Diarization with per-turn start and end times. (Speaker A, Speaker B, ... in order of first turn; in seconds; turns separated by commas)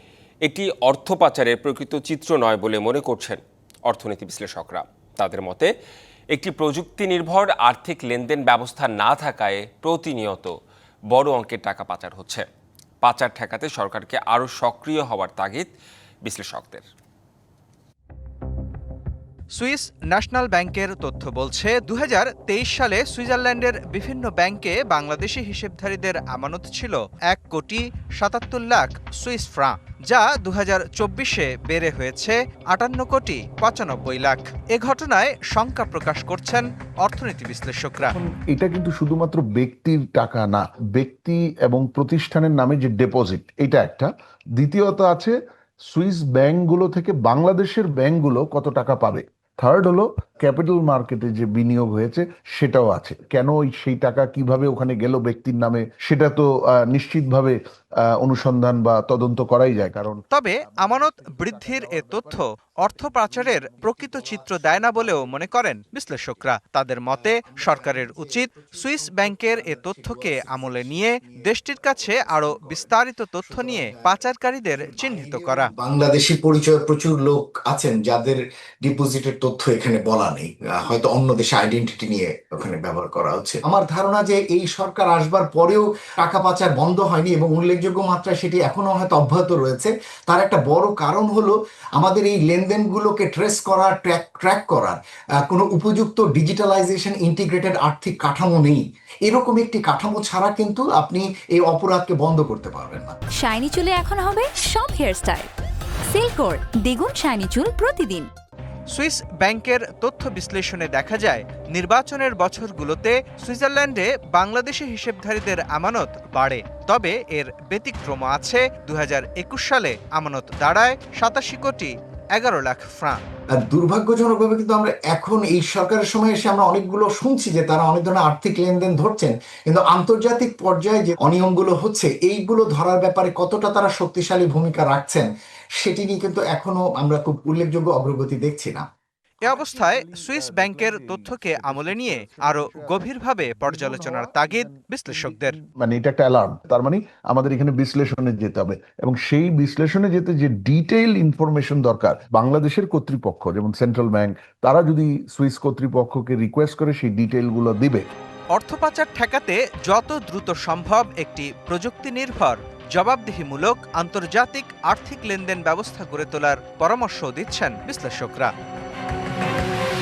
Speaker A: 0.4-5.7, Speaker A: 6.3-10.5, Speaker A: 11.1-12.5, Speaker A: 13.0-15.7, Speaker A: 16.2-16.9, Speaker B: 19.6-38.2, Speaker C: 38.1-45.4, Speaker C: 45.9-57.6, Speaker C: 58.2-60.2, Speaker B: 60.3-75.7, Speaker D: 60.7-66.5, Speaker D: 67.1-103.2, Speaker E: 103.4-105.5, Speaker E: 106.1-108.3, Speaker B: 108.9-123.2, Speaker D: 123.5-138.9, Speaker C: 139.4-158.1, Speaker B: 139.4-145.6, Speaker B: 158.5-168.5